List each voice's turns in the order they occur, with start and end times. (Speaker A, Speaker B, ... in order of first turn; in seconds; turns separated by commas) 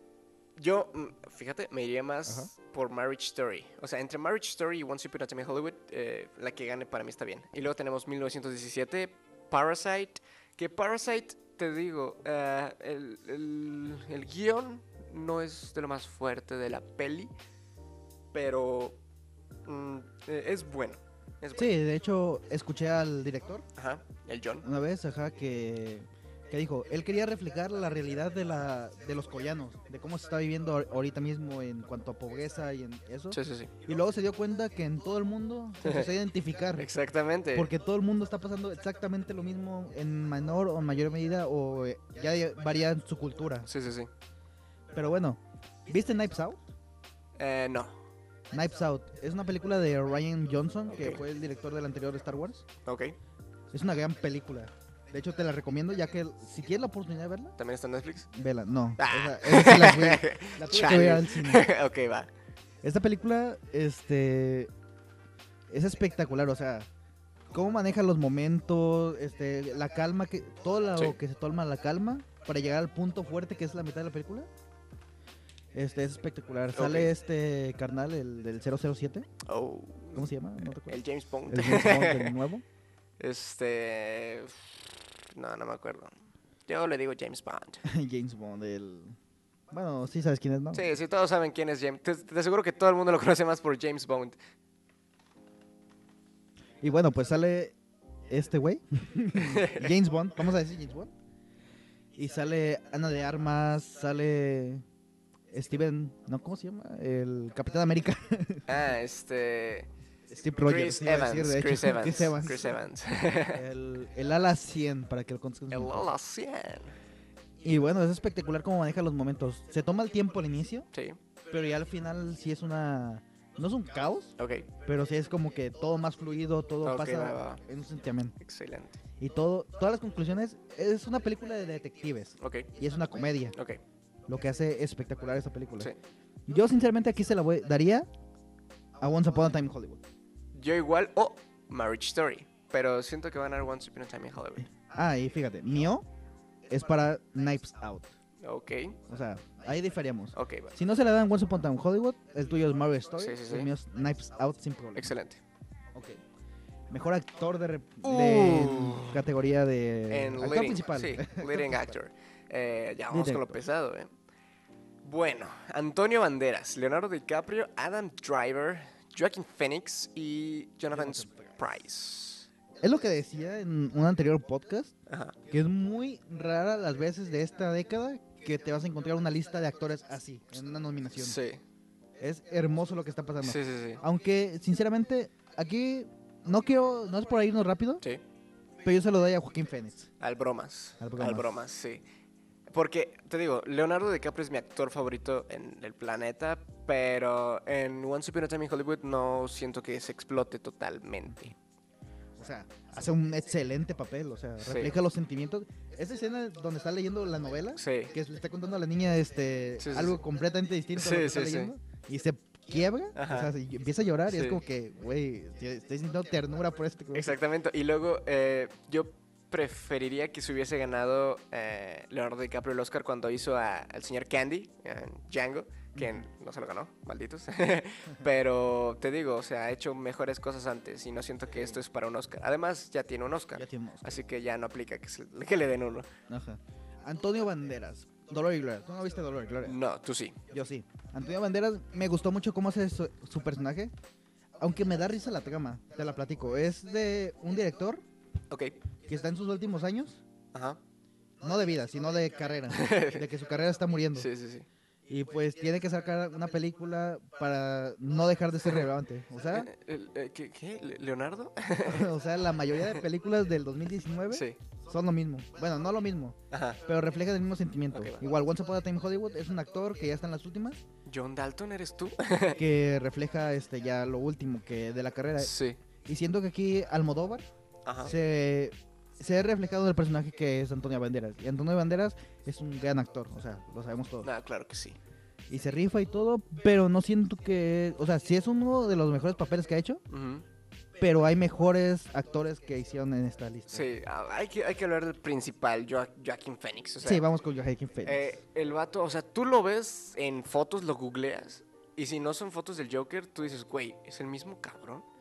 Speaker A: 0.6-17.3, Speaker A: 18.3-19.0, Speaker A: 19.7-21.8, Speaker B: 21.6-23.6, Speaker A: 23.8-24.7, Speaker B: 24.6-36.9, Speaker A: 33.3-33.7, Speaker A: 35.8-36.1, Speaker A: 36.8-37.7, Speaker B: 37.5-43.7, Speaker A: 43.7-44.1, Speaker B: 44.9-46.6, Speaker A: 47.4-48.0, Speaker B: 48.5-52.6, Speaker A: 51.0-51.2, Speaker A: 52.9-53.1, Speaker B: 53.7-57.5, Speaker A: 57.6-58.3, Speaker B: 58.3-61.6, Speaker A: 59.0-62.3, Speaker B: 62.8-64.7, Speaker B: 65.7-66.9, Speaker B: 67.5-74.5, Speaker B: 75.7-79.3, Speaker A: 76.7-77.1, Speaker A: 79.5-82.4, Speaker B: 80.2-82.6, Speaker A: 83.2-86.1, Speaker A: 86.7-87.8, Speaker B: 87.8-89.2, Speaker B: 89.7-90.9, Speaker A: 90.7-94.4, Speaker B: 96.8-97.7, Speaker B: 98.3-101.1, Speaker A: 99.3-99.9, Speaker B: 102.2-104.8, Speaker B: 105.5-108.7, Speaker A: 108.7-109.9, Speaker B: 110.3-112.8, Speaker A: 110.6-113.6, Speaker B: 113.5-116.1, Speaker A: 115.7-117.0, Speaker B: 117.6-120.9, Speaker A: 120.9-121.2, Speaker B: 121.5-124.3, Speaker A: 124.4-124.7, Speaker B: 124.9-128.3, Speaker A: 126.8-127.6, Speaker A: 128.4-129.0, Speaker B: 129.2-133.6, Speaker A: 132.4-132.7, Speaker A: 133.5-133.8, Speaker B: 134.3-135.9, Speaker B: 136.5-138.1, Speaker B: 139.0-140.0, Speaker A: 140.5-144.7, Speaker B: 144.8-146.1, Speaker B: 146.7-148.1, Speaker A: 148.4-149.0, Speaker B: 149.1-155.1, Speaker A: 150.3-150.7, Speaker A: 153.2-153.7, Speaker A: 155.0-155.4, Speaker B: 155.9-156.2, Speaker B: 156.9-162.0, Speaker A: 158.0-159.3, Speaker A: 160.1-164.1, Speaker B: 163.1-163.6, Speaker A: 165.0-172.5, Speaker B: 170.9-171.6, Speaker B: 172.8-174.9, Speaker A: 175.1-175.4, Speaker B: 175.5-181.4, Speaker A: 181.2-181.6, Speaker B: 182.2-188.0, Speaker A: 183.4-184.0, Speaker B: 188.8-190.1, Speaker A: 190.2-192.0, Speaker B: 191.0-191.5, Speaker A: 192.7-201.6, Speaker B: 202.4-217.3, Speaker A: 204.6-205.0, Speaker A: 207.8-208.1, Speaker A: 209.8-210.2, Speaker A: 211.0-211.7, Speaker A: 213.2-213.5, Speaker A: 214.3-214.6, Speaker A: 217.1-236.1, Speaker B: 226.0-226.2, Speaker B: 231.5-231.8, Speaker B: 233.6-234.2, Speaker B: 236.3-239.8, Speaker A: 239.6-240.4, Speaker B: 240.5-243.9, Speaker B: 244.6-248.0, Speaker A: 248.5-248.8, Speaker B: 249.1-250.2, Speaker A: 250.5-250.8, Speaker B: 251.4-254.3, Speaker A: 252.7-253.3, Speaker A: 254.2-254.7, Speaker B: 255.1-259.7, Speaker A: 259.5-262.1, Speaker B: 261.9-270.8, Speaker A: 264.3-264.6, Speaker A: 266.5-266.8, Speaker A: 267.9-268.3, Speaker A: 271.1-272.6, Speaker B: 272.6-275.5, Speaker A: 275.4-275.8, Speaker B: 276.1-277.4, Speaker A: 277.9-278.1, Speaker B: 278.0-284.3, Speaker A: 284.2-285.0, Speaker B: 285.5-290.0, Speaker A: 290.1-290.4, Speaker B: 291.0-293.9, Speaker A: 293.7-297.2, Speaker B: 297.0-298.4, Speaker A: 298.1-305.1